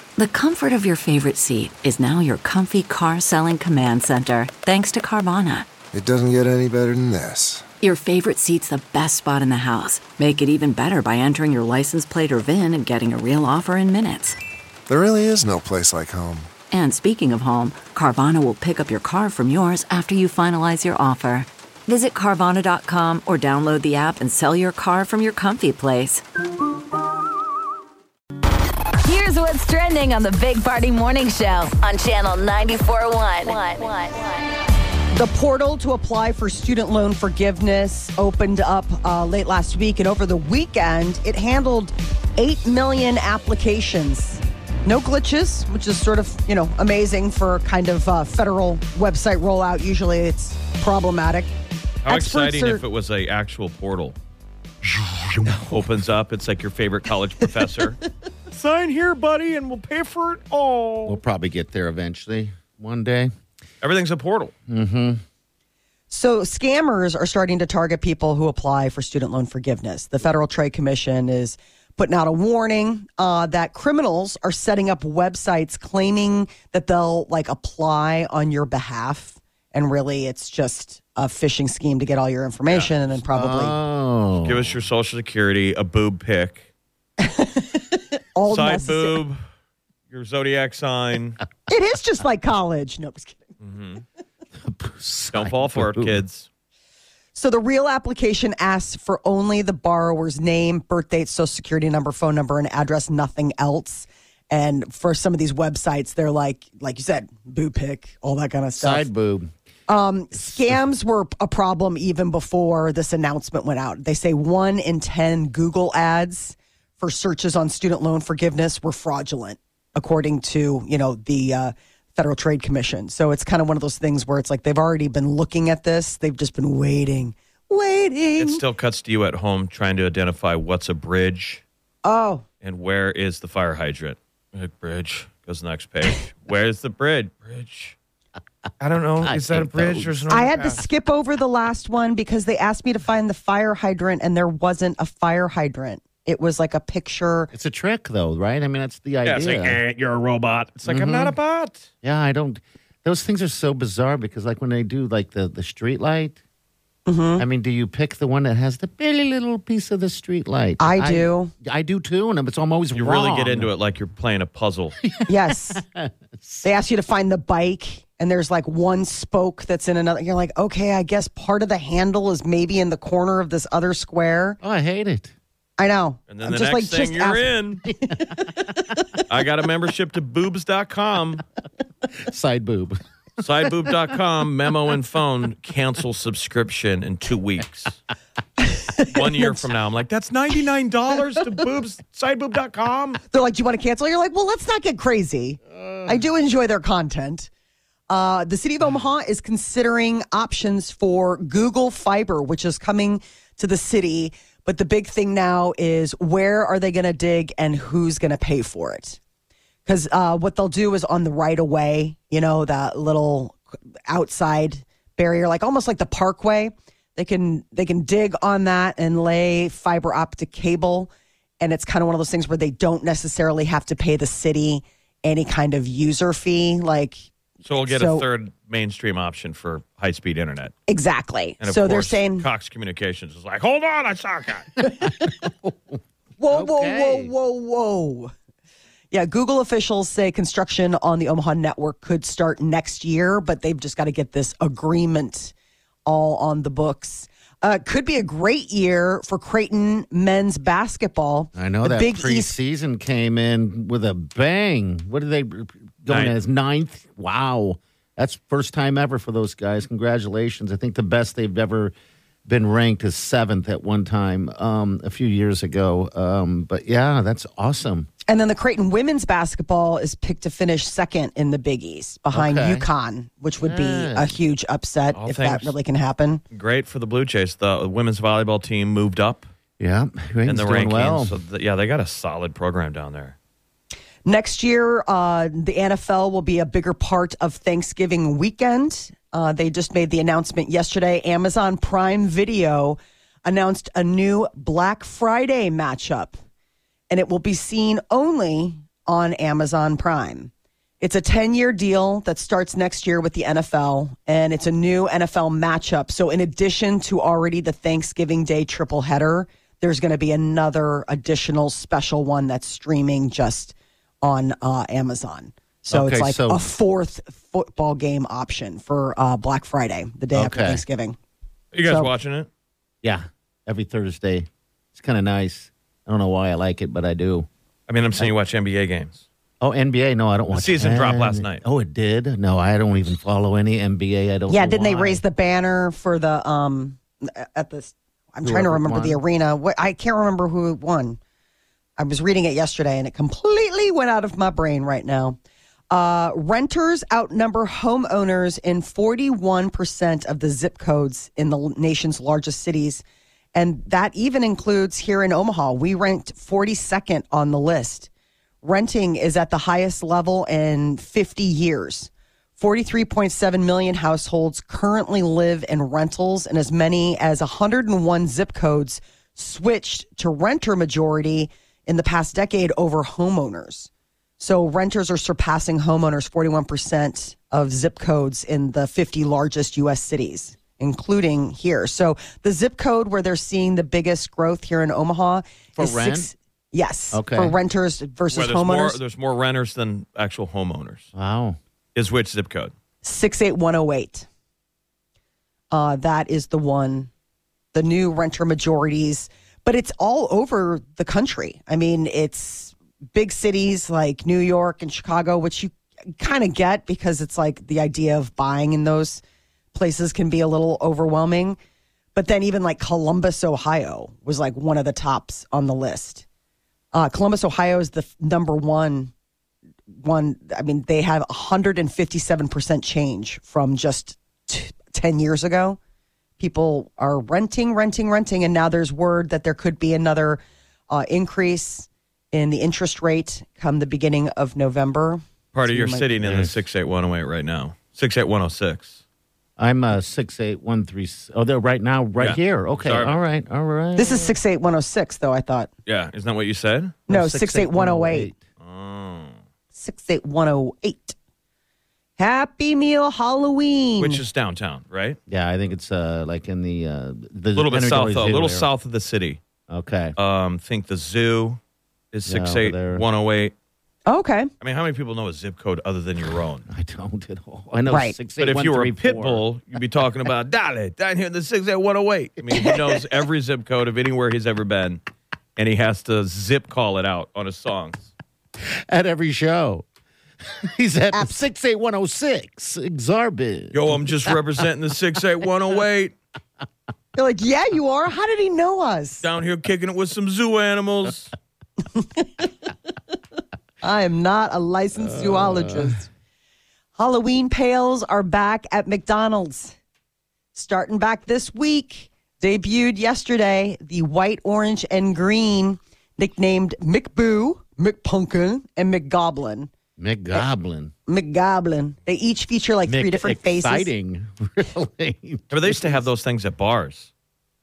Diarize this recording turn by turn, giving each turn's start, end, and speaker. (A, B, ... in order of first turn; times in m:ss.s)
0:00.2-0:05.7 A
0:05.9-0:07.6 B
0:07.8-0:14.4 A
0:14.9-0:16.5 B
0:16.7-0:26.2 A
0:29.0-0:34.4 C
0:35.1-0:51.5 D
0:52.0-0:54.2 E
0:52.1-0:52.8 D
0:54.8-0:58.0 E
0:58.5-1:01.2 E
1:01.1-1:03.3 F
1:03.8-1:04.5 E
1:04.7-1:05.2 F
1:06.1-1:23.8 D
1:22.7-1:23.0 E
1:23.3-1:24.7 F
1:24.4-1:26.7 E
1:27.2-1:29.2 D
1:28.5-1:29.4 E
1:30.1-1:31.4 E
1:31.7-1:33.4 D
1:33.6-1:34.0 E
1:34.6-1:36.2 F
1:35.3-1:36.5 E
1:37.4-1:49.1 D
1:48.8-1:49.5 F
1:49.9-2:08.6 D
2:08.4-2:11.6 E
2:12.0-2:12.4 D
2:12.6-2:18.0 E
2:18.8-2:20.8 E
2:19.2-2:20.8 F
2:20.3-2:27.5 D
2:27.5-2:29.8 F
2:29.2-2:31.9 E
2:30.9-2:31.4 F
2:32.0-2:36.4 F
2:37.1-2:37.4 D
2:37.4-2:43.7 F
2:40.8-2:41.5 D
2:43.0-2:45.0 E
2:45.0-2:46.7 F
2:45.3-2:45.8 D
2:46.6-2:54.6 D
2:54.6-2:55.3 F
2:55.8-2:57.6 D
2:56.3-2:57.8 E
2:58.1-2:59.2 D
2:59.3-3:01.4 E
3:02.2-3:03.0 F
3:03.4-3:07.9 E
3:03.7-3:04.1 F
3:08.6-3:09.7 D
3:09.0-3:13.2 E
3:13.3-3:17.5 D
3:15.8-3:16.2 F
3:18.1-3:29.2 D
3:29.9-3:47.2 D
3:47.6-3:50.7 E
3:47.8-3:48.3 D
3:50.9-3:52.5 D
3:51.6-3:54.8 E
3:55.0-3:55.3 D
3:55.4-3:56.0 F
3:56.4-3:58.3 D
3:56.5-3:57.3 F
3:59.1-4:05.5 D
4:06.1-4:12.6 D
4:11.6-4:21.9 F
4:16.1-4:16.4 E
4:22.5-4:28.1 F
4:28.3-4:36.4 D
4:32.3-4:32.9 F
4:33.6-4:34.3 F
4:35.2-4:35.8 E
4:36.5-4:39.5 E
4:39.8-4:41.3 F
4:40.5-4:43.4 E
4:44.2-4:56.4 D
4:57.1-5:21.2 D
5:15.9-5:16.6 F
5:20.3-5:20.8 F
5:21.7-5:22.5 E
5:21.9-5:22.1 D
5:23.0-5:27.5 F
5:27.9-5:29.2 E
5:29.6-5:35.2 F
5:30.5-5:31.6 E
5:34.5-5:41.2 D
5:38.4-5:39.2 F
5:42.0-5:45.4 D
5:45.9-5:53.0 D
5:53.6-5:58.1 D
5:58.6-6:29.0 D
6:25.8-6:26.3 F
6:27.1-6:27.6 F
6:28.3-6:31.1 E
6:31.2-6:31.6 F
6:32.0-6:32.7 E
6:33.0-6:34.3 D
6:35.7-6:37.1 D
6:37.7-6:49.2 D
6:49.7-6:51.6 D
6:52.2-6:56.2 D
6:56.9-6:59.1 D
7:00.0-7:05.8 D
7:06.4-7:16.1 D
7:15.5-7:19.0 E
7:16.2-7:16.6 F
7:19.6-7:24.4 F
7:22.2-7:23.2 E
7:24.0-7:25.7 D
7:25.9-7:27.0 E
7:27.1-7:28.3 D
7:27.1-7:28.4 F
7:28.6-7:29.4 E
7:29.8-7:31.2 D
7:32.2-7:34.2 D
7:34.0-7:35.2 E
7:35.3-7:38.7 F
7:37.6-7:39.4 E
7:39.7-7:40.2 F
7:40.2-7:41.6 E
7:42.1-7:43.5 E
7:42.3-7:43.0 F
7:44.1-7:44.5 D
7:44.6-7:46.6 E
7:46.7-7:49.4 F
7:47.9-7:48.2 D
7:48.4-7:55.0 E
7:55.6-7:58.1 E
7:58.6-7:59.9 F
8:00.6-8:04.4 F
8:01.1-8:01.4 D
8:03.7-8:06.1 E
8:07.2-8:09.2 D
8:09.2-8:11.3 E
8:12.0-8:12.3 D
8:13.8-8:16.1 D
8:15.0-8:15.9 F
8:17.0-8:19.8 D
8:20.5-8:29.7 D
8:30.0-8:30.9 F
8:31.1-8:33.9 D
8:32.9-8:36.0 F
8:35.5-8:37.1 E